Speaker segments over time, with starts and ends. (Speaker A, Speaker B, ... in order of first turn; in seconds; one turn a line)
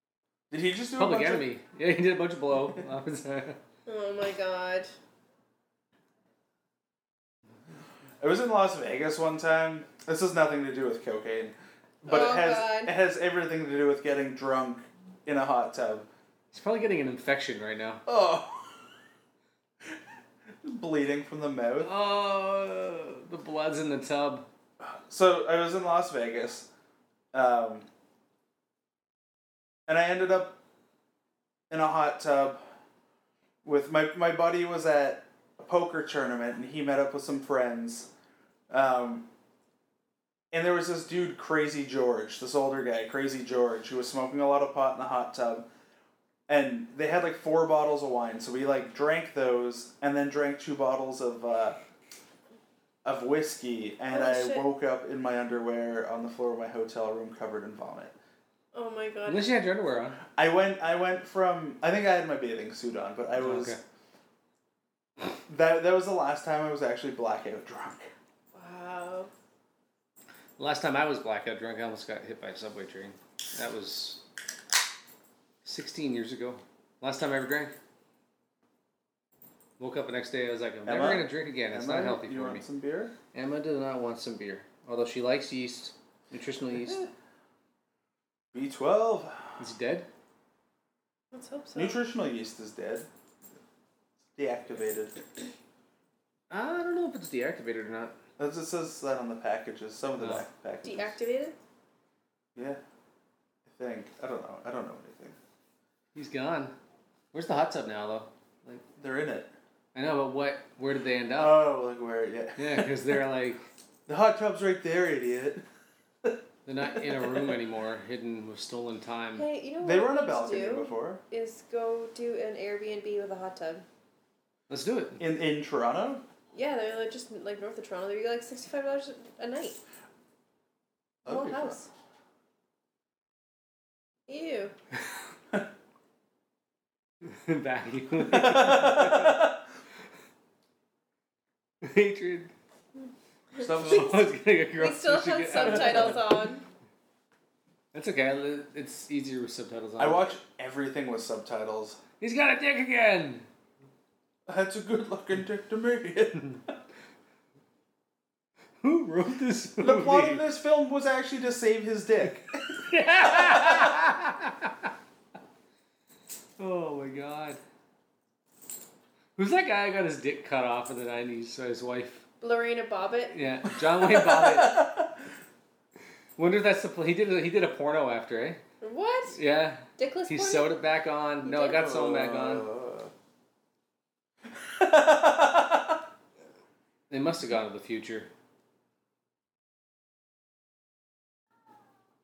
Speaker A: 0.5-1.5
Speaker B: 1.0-3.6
Speaker C: 3.9-4.9
Speaker A: 8.2-16.1
Speaker C: 12.1-12.9
Speaker B: 16.5-18.0
Speaker A: 18.1-18.8
Speaker A: 20.6-21.9
Speaker B: 21.8-24.4
Speaker A: 24.8-26.7
Speaker A: 27.3-27.9
Speaker A: 29.9-30.6
Speaker A: 31.7-32.6
Speaker A: 33.6-38.1
Speaker A: 38.7-39.3
Speaker A: 40.5-45.6
Speaker A: 46.5-51.8
Speaker A: 53.0-58.1
Speaker C: 54.1-54.7
Speaker C: 58.7-59.5
Speaker B: 59.2-60.2
Speaker A: 60.4-63.8
Speaker B: 63.4-63.8
Speaker A: 65.5-68.1
Speaker C: 68.5-69.3
Speaker B: 70.6-74.2
Speaker B: 75.6-77.7
Speaker B: 79.8-82.6
Speaker A: 80.8-83.1
Speaker B: 83.3-87.1
Speaker A: 88.5-89.4
Speaker B: 89.6-90.1
Speaker C: 91.3-92.0
Speaker A: 91.7-93.1
Speaker A: 94.3-95.2
Speaker B: 96.5-98.1
Speaker A: 98.4-101.2
Speaker B: 100.2-100.4
Speaker C: 100.8-101.6
Speaker A: 102.5-102.8
Speaker A: 103.7-105.4
Speaker B: 106.1-106.7
Speaker B: 107.3-108.8
Speaker A: 109.0-109.5
Speaker B: 109.9-111.7
Speaker A: 111.4-113.1
Speaker B: 112.6-113.6
Speaker A: 114.1-115.6
Speaker B: 116.7-119.4
Speaker C: 119.3-123.8
Speaker A: 119.8-121.2
Speaker B: 124.7-125.2
Speaker A: 125.2-126.2
Speaker C: 126.5-129.8
Speaker A: 131.2-131.8
Speaker C: 131.2-131.9
Speaker C: 134.3-134.7
Speaker B: 137.2-139.4
Speaker A: 138.3-139.4
Speaker B: 141.8-142.5
Speaker C: 143.0-146.6
Speaker A: 143.6-144.1
Speaker B: 143.8-146.2
Speaker B: 147.9-150.3
Speaker A: 150.0-152.0
Speaker B: 152.2-153.4
Speaker A: 154.5-156.6
Speaker B: 158.8-160.4
Speaker A: 159.8-162.6
Speaker B: 162.9-164.3
Speaker B: 166.6-167.6
Speaker B: 169.4-172.2
Speaker C: 172.4-173.4
Speaker B: 173.3-174.9
Speaker B: 176.4-178.6
Speaker C: 178.8-179.4
Speaker B: 179.3-182.7
Speaker C: 179.9-180.8
Speaker C: 181.4-181.9
Speaker A: 181.7-183.1
Speaker A: 184.6-185.9
Speaker B: 187.1-188.3